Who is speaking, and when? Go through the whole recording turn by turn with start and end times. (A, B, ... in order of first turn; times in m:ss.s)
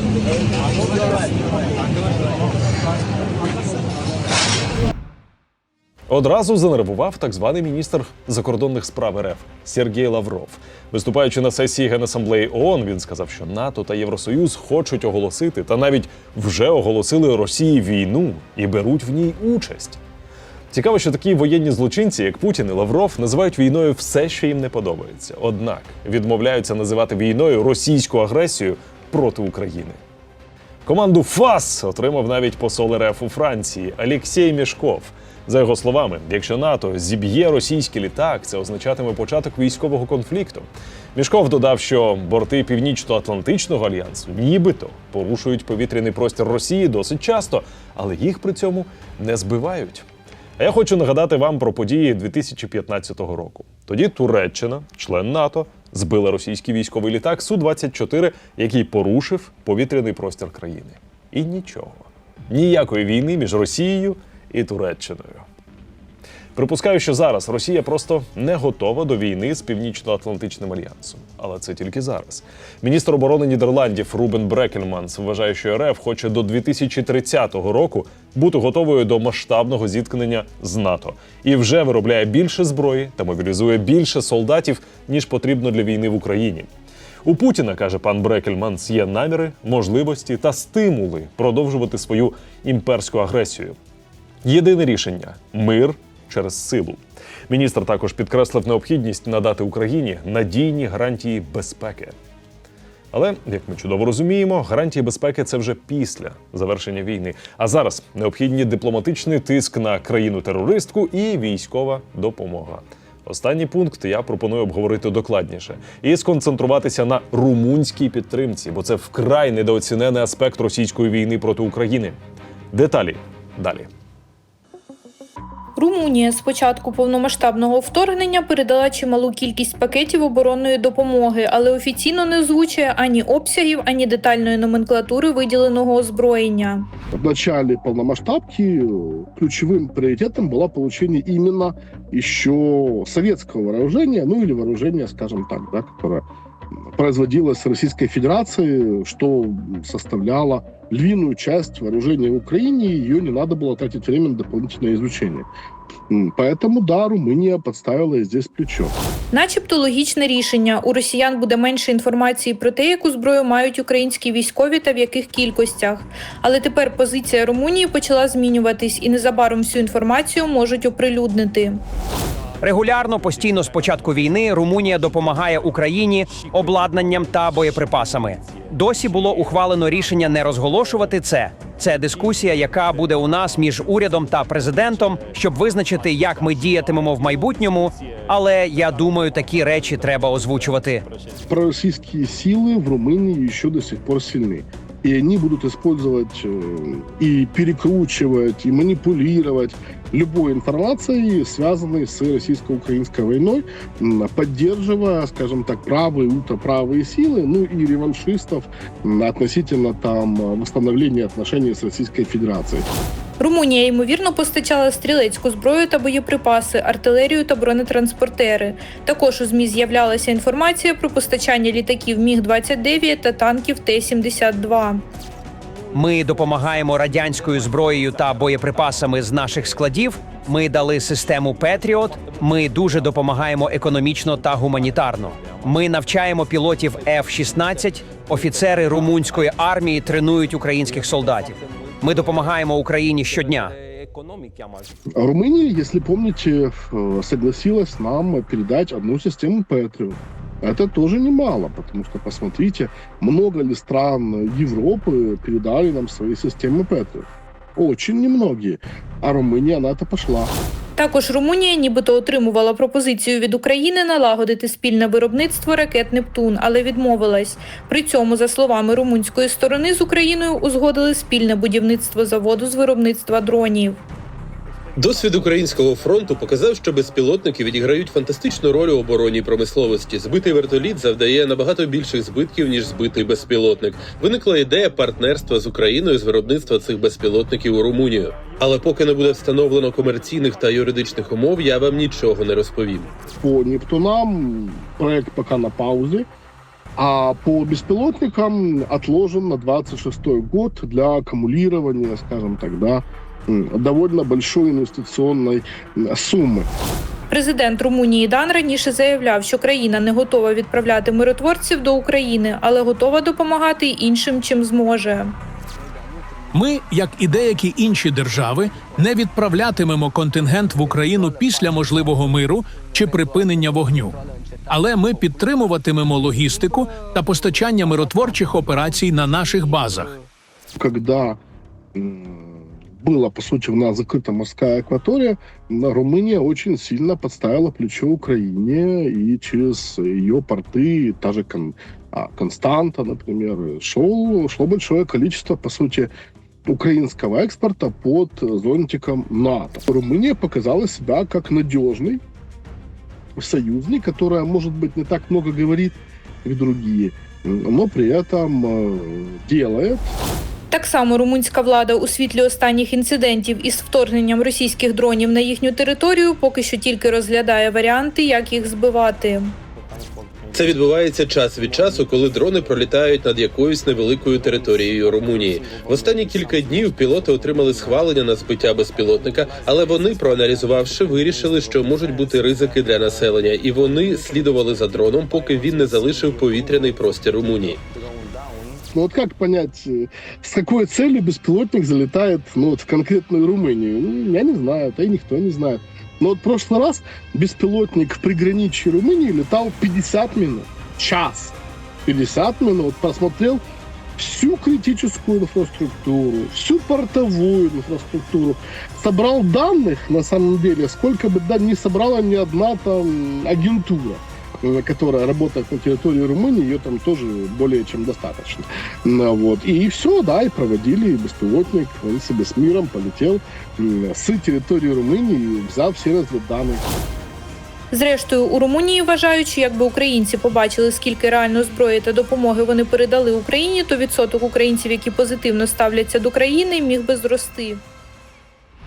0:06.1-0:20.0 A
0:20.7-0:30.0 A
0:30.9-0:50.0 A
0:50.6-1:05.5 A
1:06.6-1:26.7 A
1:27.2-1:33.8 A
1:34.4-1:42.2 A
1:43.1-2:02.2 A
2:02.7-2:03.9 A
2:05.8-2:16.9 B
2:17.1-2:26.2 C
2:26.8-2:35.5 C
2:36.1-2:38.9 C
2:39.3-2:51.8 B
2:52.6-3:11.1 D
3:11.5-3:32.9 C
3:33.4-3:45.0 B
3:45.9-4:03.7 D
4:05.2-4:20.5 C
4:21.0-4:34.0 B
4:35.0-4:53.1 E
4:53.4-4:56.3 C
4:57.0-5:06.7 C
5:07.3-5:15.3 B
5:16.5-5:24.2 F
5:24.7-5:30.1 F
5:30.8-5:31.4 C
5:32.0-5:46.1 C
5:46.7-5:52.2 C
5:53.4-6:00.1 C
6:00.7-6:09.6 B
6:10.5-6:27.8 E
6:28.9-6:43.6 C
6:44.2-7:06.9 C
7:07.9-7:17.8 B